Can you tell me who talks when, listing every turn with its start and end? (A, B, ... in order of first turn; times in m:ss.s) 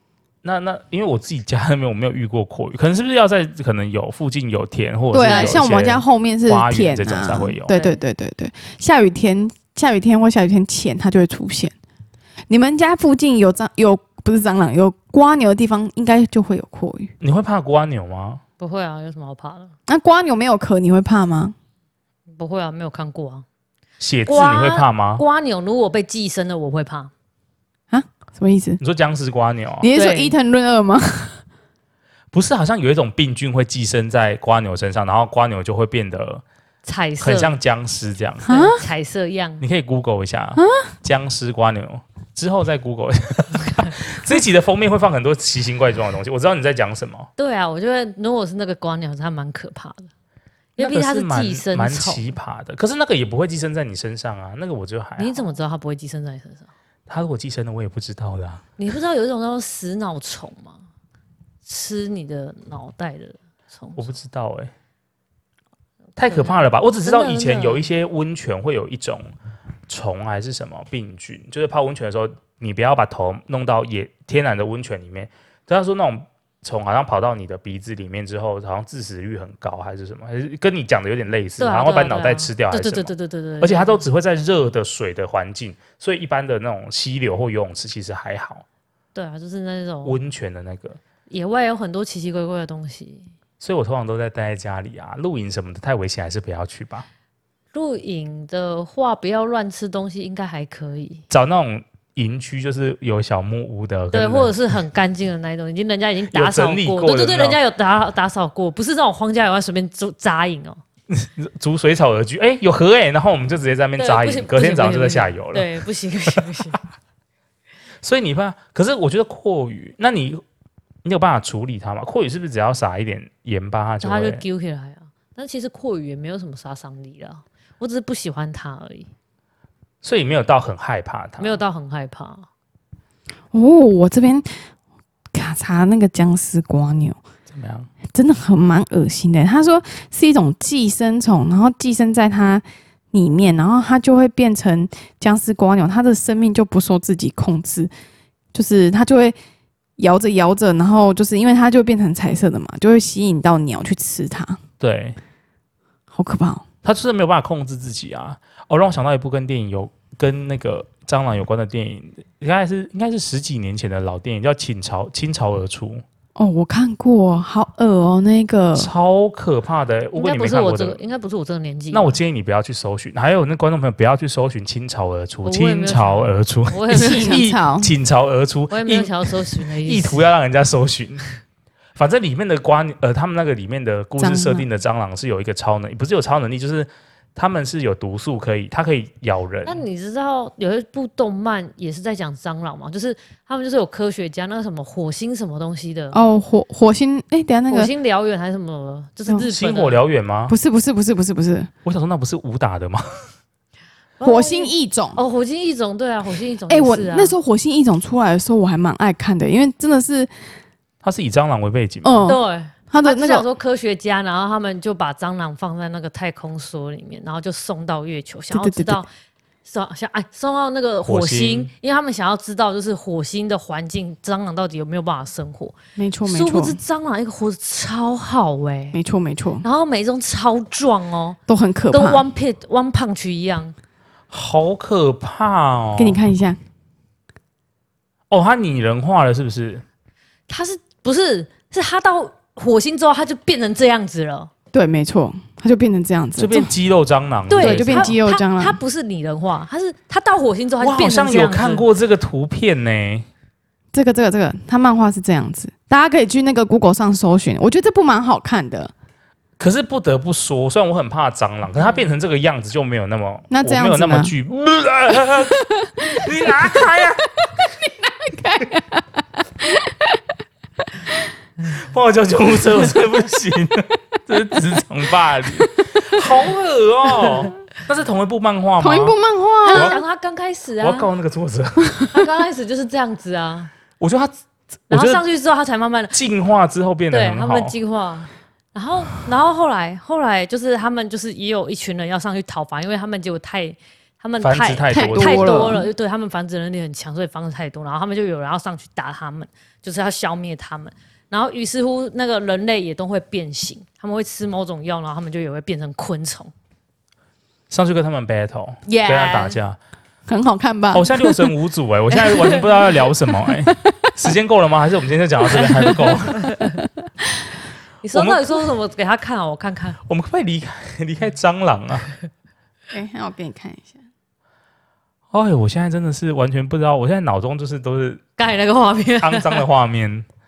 0:00.4-0:07.7 A
0:05.1-0:11.7 B
0:05.2-0:05.6 C
0:07.7-0:08.0 C
0:12.5-0:17.1 B
0:17.2-0:18.4 A
0:18.6-0:19.7 C
0:19.9-0:21.6 B
0:22.4-0:23.4 C
0:24.0-0:25.2 A
0:24.3-0:27.1 C
0:27.9-0:28.8 B
0:28.8-0:29.9 A
0:29.8-0:31.4 B
0:29.9-0:30.4 C
0:32.3-0:36.4 A
0:36.8-0:37.5 C
0:37.2-0:38.5 A
0:38.5-0:39.6 C
0:38.5-0:38.8 B
0:39.6-0:47.3 A
0:40.6-0:40.8 B
0:47.4-0:50.1 C
0:50.8-0:52.3 C
0:50.8-0:55.5 A
0:55.2-0:56.7 C
0:57.1-0:58.6 A
0:58.8-1:00.8 C
1:01.6-1:04.1 C
1:04.0-1:04.7 A
1:06.2-1:09.3 A
1:06.2-1:07.9 C
1:09.9-1:28.6 A
1:21.6-1:24.0 C
1:29.2-1:30.2 C
1:30.0-1:31.0 A
1:31.3-1:33.3 C
1:33.6-1:37.1 A
1:37.7-1:41.2 C
1:41.3-1:44.6 A
1:44.1-1:50.8 C
1:46.3-1:47.6 A
1:51.1-1:55.7 A
1:54.0-1:56.8 C
1:58.0-2:00.4 A
2:01.0-2:04.4 A
2:04.0-2:09.1 C
2:10.0-2:11.6 A
2:11.4-2:12.5 C
2:13.5-2:14.5 B
2:15.3-2:17.2 B
2:17.5-2:17.9 A
2:18.1-2:27.9 B
2:28.5-2:29.4 B
2:30.0-2:34.6 B
2:34.8-2:35.2 A
2:36.1-2:36.6 B
2:36.8-2:46.0 A
2:46.4-2:48.9 B
2:48.8-2:51.0 A
2:50.2-2:52.2 C
2:51.9-3:01.3 A
2:55.4-2:57.4 C
2:56.9-2:57.9 B
2:58.7-3:00.2 C
3:02.0-3:09.8 A
3:04.2-3:04.7 B
3:09.6-3:16.2 C
3:16.1-3:17.9 B
3:17.7-3:20.0 C
3:19.4-3:20.6 A
3:20.5-3:21.7 B
3:21.8-3:23.0 A
3:24.2-3:27.4 C
3:24.2-3:25.2 B
3:26.7-3:30.3 B
3:31.0-3:32.3 A
3:32.0-3:33.5 B
3:32.2-3:39.1 C
3:38.5-3:39.0 B
3:39.6-3:45.8 C
3:41.0-3:41.7 A
3:46.0-3:46.8 B
3:46.3-3:49.0 C
3:48.9-3:49.6 B
3:49.6-3:51.4 C
3:51.5-3:52.3 B
3:51.9-3:53.8 C
3:54.3-3:56.2 A
3:56.0-3:56.6 B
3:58.3-3:59.8 A
4:00.5-4:04.5 C
4:04.7-4:06.7 B
4:06.4-4:08.2 A
4:07.5-4:11.9 C
4:07.6-4:08.8 B
4:10.8-4:13.3 A
4:13.9-4:18.9 B
4:19.6-4:27.3 A
4:23.5-4:24.3 B
4:25.8-4:26.8 B
4:28.0-4:30.2 B
4:31.7-4:39.2 A
4:38.8-4:40.0 B
4:39.7-4:41.1 C
4:39.7-4:40.0 A
4:40.8-4:42.0 A
4:42.1-4:43.7 C
4:44.0-4:44.3 A
4:44.9-4:45.2 A
4:44.9-4:46.2 C
4:46.1-4:47.8 A
4:47.1-5:06.5 C
4:54.4-4:55.8 A
4:54.9-4:55.9 B
5:07.7-5:09.8 A
5:08.9-5:09.6 B
5:10.3-5:11.5 B
5:10.9-5:16.5 A
5:13.5-5:14.1 B
5:18.0-5:20.0 C
5:18.1-5:18.5 A
5:20.1-5:22.1 A
5:22.9-5:24.0 B
5:25.3-5:28.2 A
5:28.4-5:29.7 C
5:29.2-5:30.2 A